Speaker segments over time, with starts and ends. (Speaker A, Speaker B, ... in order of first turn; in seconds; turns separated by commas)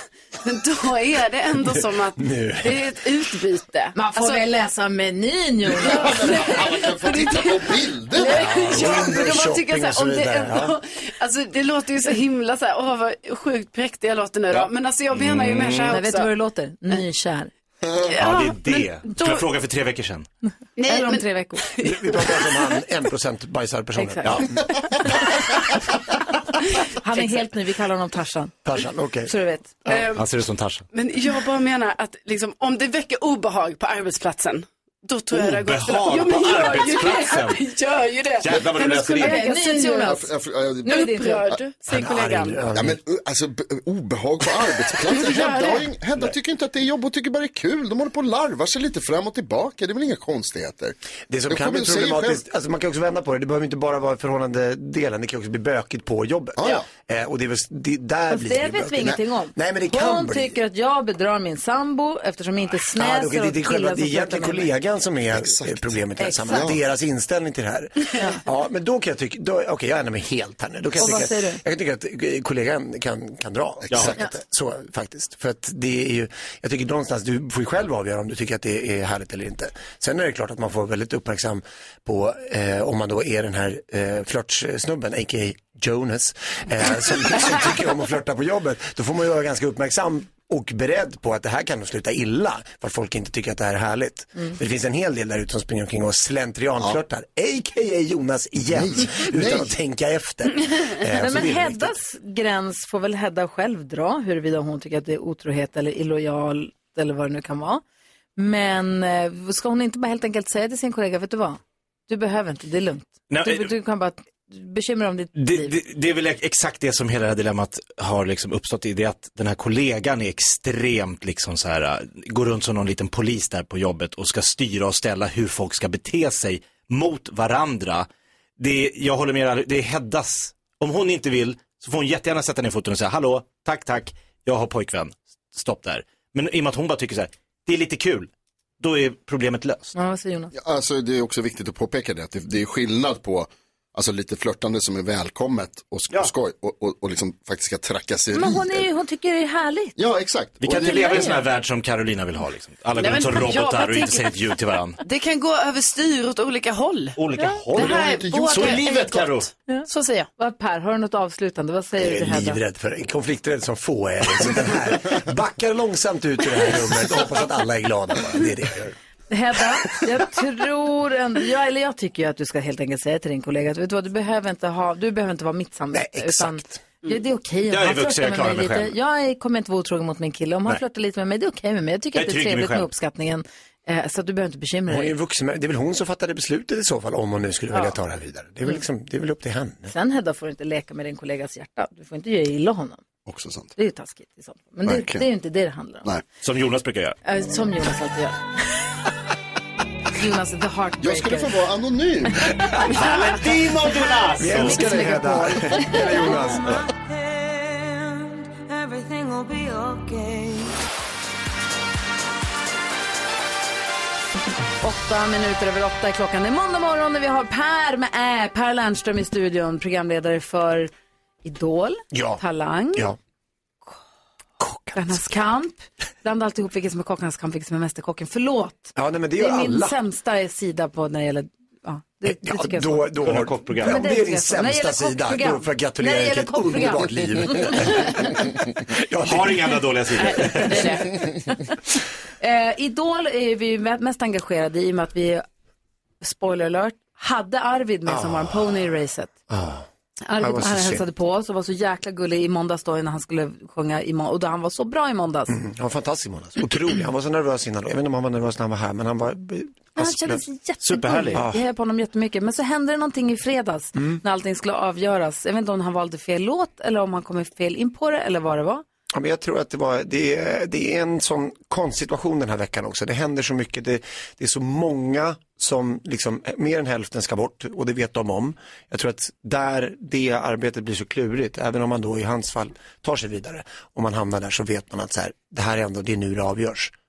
Speaker A: 0.4-4.4, Speaker B: 2.2-2.8, Speaker C: 3.9-6.6, Speaker D: 5.8-8.5, Speaker A: 6.0-16.3, Speaker C: 8.2-8.6, Speaker B: 8.3-10.7, Speaker E: 14.5-16.0, Speaker C: 15.9-17.5, Speaker D: 17.9-18.1, Speaker A: 18.0-19.4, Speaker E: 18.2-20.3, Speaker A: 20.8-22.5, Speaker C: 20.9-21.6, Speaker B: 21.8-25.4, Speaker C: 24.0-24.4, Speaker C: 27.0-28.6, Speaker B: 28.6-29.3, Speaker C: 29.2-29.8, Speaker A: 29.9-30.2, Speaker E: 30.1-30.9, Speaker A: 30.9-40.2, Speaker E: 35.3-37.6, Speaker E: 38.4-39.4, Speaker C: 39.2-40.2, Speaker D: 40.0-41.1, Speaker C: 40.8-41.4, Speaker A: 40.9-42.6, Speaker B: 41.9-43.0, Speaker D: 42.7-51.0, Speaker A: 45.0-45.8, Speaker B: 51.3-60.6, Speaker D: 51.5-52.4, Speaker D: 56.6-56.9, Speaker C: 58.3-64.7, Speaker B: 62.9-102.0, Speaker D: 65.3-66.8, Speaker C: 66.2-66.7, Speaker C: 71.0-71.6, Speaker E: 73.9-74.2, Speaker D: 98.6-99.7, Speaker C: 101.2-107.8, Speaker C: 108.4-115.7, Speaker E: 113.3-113.7, Speaker E: 115.3-139.9, Speaker C: 139.9-140.5, Speaker D: 140.5-148.9, Speaker C: 148.3-150.0, Speaker D: 150.0-151.3, Speaker E: 150.6-155.0, Speaker A: 153.0-154.4, Speaker A: 155.0-157.2, Speaker E: 157.2-159.5, Speaker A: 157.7-160.3, Speaker D: 157.8-158.8, Speaker C: 160.4-162.6, Speaker B: 162.0-168.9, Speaker C: 169.3-185.1, Speaker B: 175.9-176.8, Speaker E: 177.7-178.9, Speaker E: 182.1-182.9, Speaker B: 184.9-189.9, Speaker C: 189.9-193.0, Speaker D: 193.2-193.7, Speaker C: 193.8-196.1, Speaker D: 194.8-195.2, Speaker E: 196.4-197.2, Speaker C: 197.2-198.4, Speaker C: 200.1-201.6, Speaker D: 201.0-202.5, Speaker E: 202.9-204.9, Speaker B: 204.4-206.8, Speaker C: 204.6-206.4, Speaker F: 206.5-210.7, Speaker C: 214.8-220.9, Speaker C: 221.4-223.1, Speaker B: 222.1-222.4, Speaker B: 224.6-225.2, Speaker C: 224.9-233.2, Speaker B: 229.0-230.0, Speaker B: 232.2-239.7, Speaker E: 233.2-234.0, Speaker C: 233.8-238.1, Speaker E: 239.2-241.0, Speaker A: 240.2-241.1, Speaker C: 242.4-245.4, Speaker C: 246.2-249.3, Speaker B: 248.1-248.9, Speaker B: 249.5-249.8, Speaker C: 250.2-255.5, Speaker B: 250.4-251.0, Speaker B: 255.5-260.4, Speaker C: 260.0-268.8, Speaker E: 260.8-261.4, Speaker B: 261.4-261.6, Speaker B: 263.9-264.2, Speaker B: 269.1-286.9